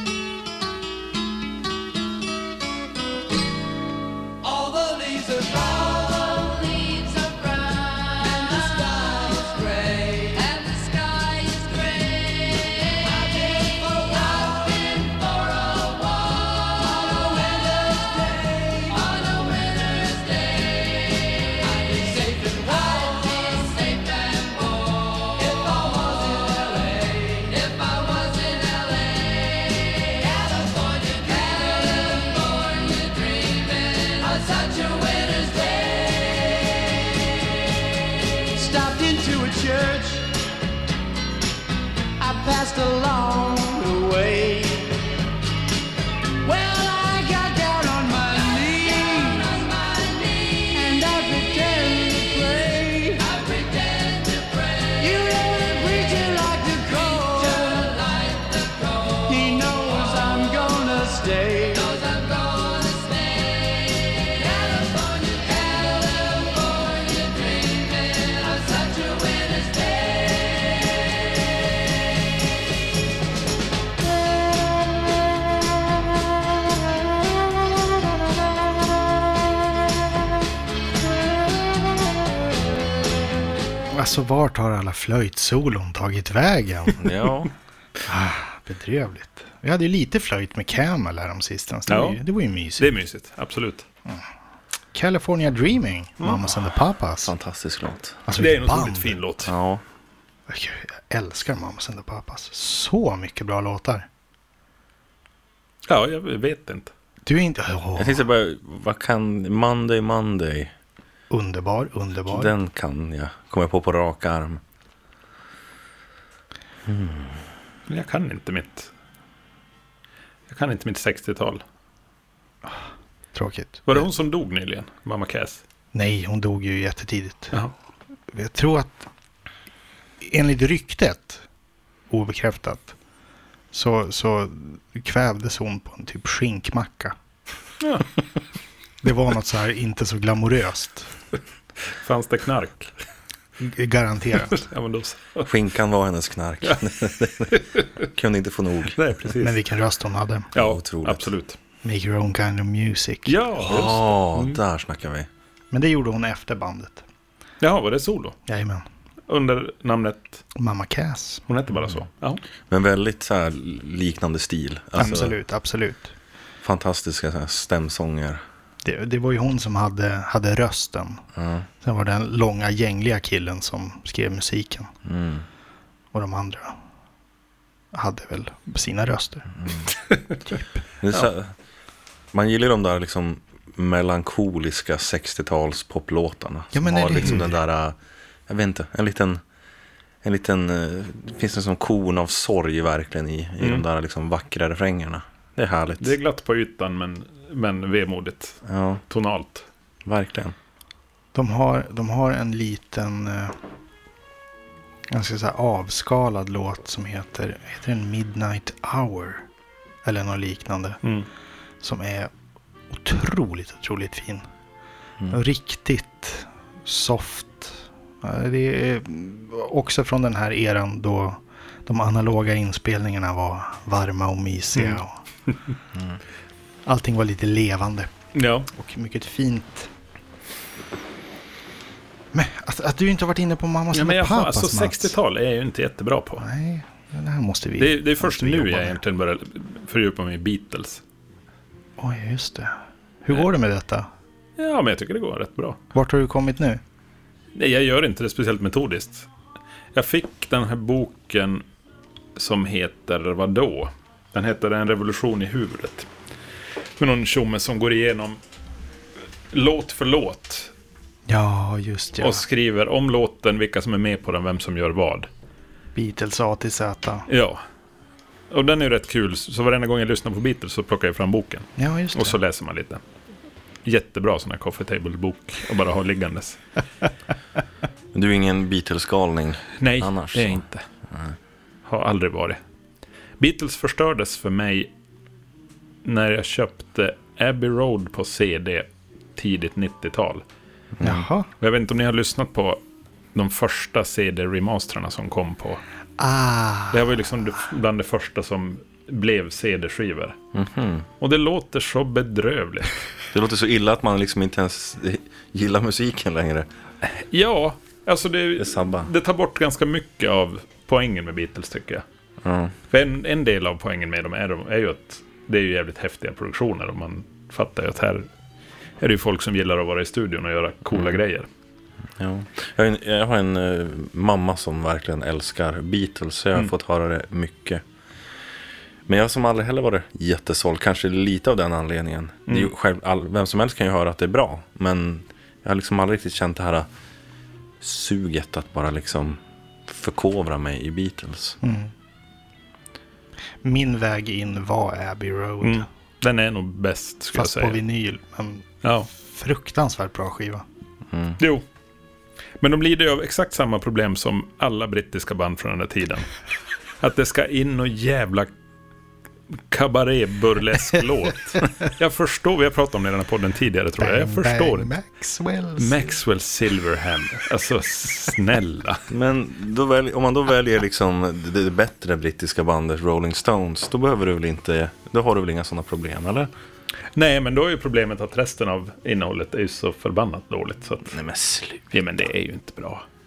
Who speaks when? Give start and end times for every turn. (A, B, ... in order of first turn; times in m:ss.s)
0:04.4-0:36.9 A
0:38.5-0:40.3 A
0:42.2-0:45.0 A
0:46.4-1:10.8 A
1:23.9-1:27.1 B
1:27.0-1:27.5 C
1:28.1-1:32.9 B
1:31.9-1:32.2 D
1:32.8-1:33.8 D
1:34.9-1:37.3 B
1:37.2-1:38.2 C
1:38.3-1:39.2 B
1:38.4-1:39.5 D
1:39.4-1:39.8 C
1:40.5-1:44.1 B
1:45.9-1:46.9 D
1:47.3-1:48.2 B
1:48.0-1:50.7 C
1:51.3-1:52.5 B
1:52.3-1:54.6 C
1:56.9-1:57.4 C
1:57.9-1:58.9 D
2:00.5-2:01.6 D
2:03.3-2:04.1 B
2:03.9-2:05.6 D
2:05.9-2:07.5 B
2:08.3-2:09.1 B
2:10.2-2:11.4 B
2:12.1-2:12.9 B
2:13.7-2:17.2 B
2:17.8-2:18.1 D
2:19.0-2:21.1 B
2:22.0-2:22.9 D
2:23.6-2:24.7 B
2:24.5-2:25.5 D
2:25.5-2:29.0 C
2:27.5-2:28.0 D
2:28.9-2:29.6 D
2:29.4-2:30.5 B
2:30.5-2:31.6 D
2:30.6-2:31.3 C
2:31.8-2:33.4 B
2:33.3-2:34.6 D
2:33.6-2:35.3 C
2:35.7-2:37.0 B
2:37.6-2:38.4 D
2:38.5-2:38.8 B
2:39.3-2:40.4 D
2:40.6-2:41.4 B
2:41.5-2:42.4 D
2:42.7-2:45.4 C
2:45.0-2:46.1 B
2:46.6-2:48.4 C
2:48.8-2:51.2 B
2:51.4-2:51.7 C
2:51.8-2:54.9 B
2:55.0-2:55.4 C
2:56.1-2:56.8 B
2:57.9-2:59.5 B
2:59.6-2:59.9 C
3:00.1-3:00.4 D
3:00.5-3:00.8 B
3:01.0-3:01.5 C
3:02.3-3:08.0 C
3:06.7-3:07.5 B
3:08.5-3:09.4 C
3:10.2-3:16.2 C
3:13.6-3:13.8 D
3:16.0-3:19.7 D
3:18.6-3:19.0 C
3:20.1-3:20.6 C
3:21.3-3:23.6 B
3:25.1-3:29.4 B
3:30.0-3:31.0 B
3:31.8-3:32.3 B
3:32.9-3:34.4 B
3:35.3-3:45.1 B
3:46.9-3:48.1 B
3:48.3-3:48.7 D
3:48.7-3:49.9 B
3:52.3-3:55.1 B
3:53.9-3:56.5 D
3:56.4-3:59.0 B
3:57.8-4:01.0 D
4:02.0-4:04.1 B
4:04.6-4:05.8 D
4:05.9-4:06.8 B
4:07.6-4:09.3 D
4:10.0-4:11.6 D
4:12.4-4:16.1 D
4:17.0-4:18.4 D
4:19.5-4:20.7 D
4:21.3-4:22.4 B
4:22.2-4:25.3 D
4:26.0-4:27.3 B
4:27.3-4:27.6 D
4:28.5-4:33.0 D
4:31.8-4:32.4 B
4:33.8-4:36.6 D
4:38.1-4:41.3 C
4:39.8-4:40.8 D
4:41.9-4:42.6 D
4:43.4-4:44.9 D
4:46.0-4:50.4 D
4:51.0-4:51.3 C
4:51.0-4:51.5 B
4:51.6-4:52.8 D
4:53.4-4:55.8 D
4:56.2-4:57.1 B
4:56.9-5:00.4 D
5:00.5-5:01.1 C
5:01.2-5:03.0 D
5:03.3-5:06.7 C
5:07.0-5:12.0 D
5:08.6-5:09.1 C
5:12.4-5:12.7 C
5:12.9-5:18.3 D
5:19.0-5:21.5 D
5:20.9-5:21.2 C
5:22.2-5:27.8 C
5:29.1-5:36.9 C
5:32.5-5:32.7 D
5:37.8-5:41.6 C
5:41.6-5:41.9 B
5:43.6-5:45.9 B
5:45.6-5:47.8 D
5:47.4-5:50.6 B
5:48.8-5:49.1 D
5:51.1-5:51.4 C
5:51.4-5:51.6 D
5:52.6-5:56.3 D
5:57.0-5:58.5 D
5:59.6-6:04.9 D
6:04.0-6:06.2 B
6:05.8-6:09.0 D
6:09.1-6:16.5 C
6:17.2-6:21.2 D
6:21.1-6:21.9 C
6:21.9-6:23.0 D